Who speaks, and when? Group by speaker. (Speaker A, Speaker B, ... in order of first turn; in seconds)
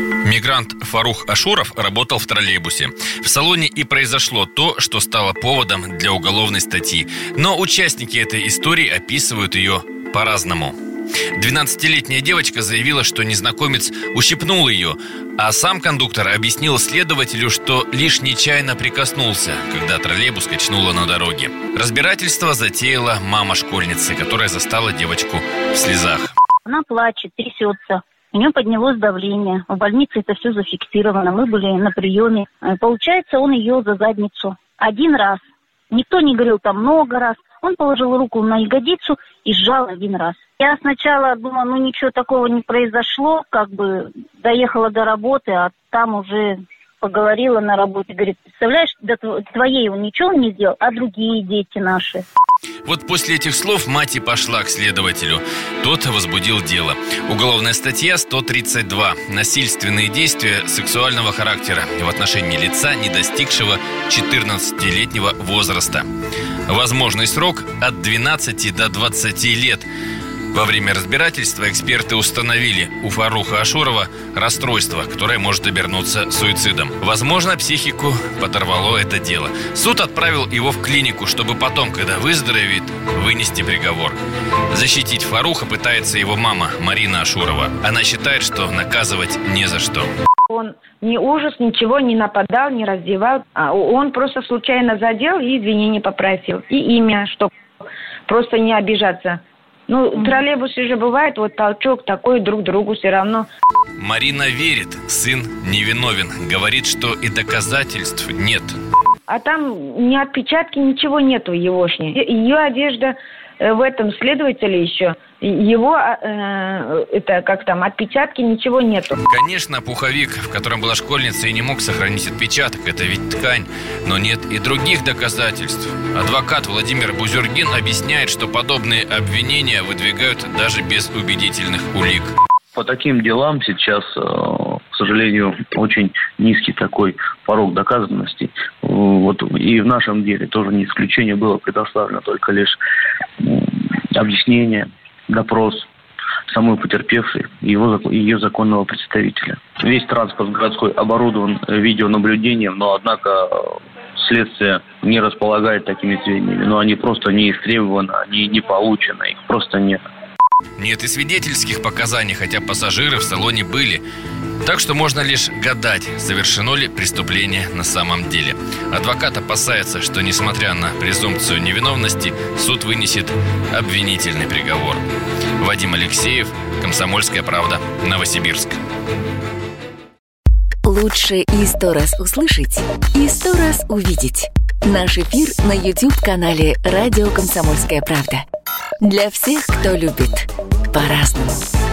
Speaker A: 0.2-10.8, 11.4-26.3, 52.9-66.1, 66.7-69.9, 70.5-84.2, 84.7-90.1, 104.0-108.8, 119.3-132.3, 160.8-164.0, 164.6-175.0, 175.6-178.8
Speaker B: 26.7-35.4, 35.9-52.2
Speaker C: 90.5-97.5, 98.3-103.5, 109.3-119.2
Speaker D: 132.8-134.1, 134.9-142.8, 144.2-145.8, 146.5-153.3, 154.2-159.9
Speaker E: 180.8-188.4, 189.0-191.6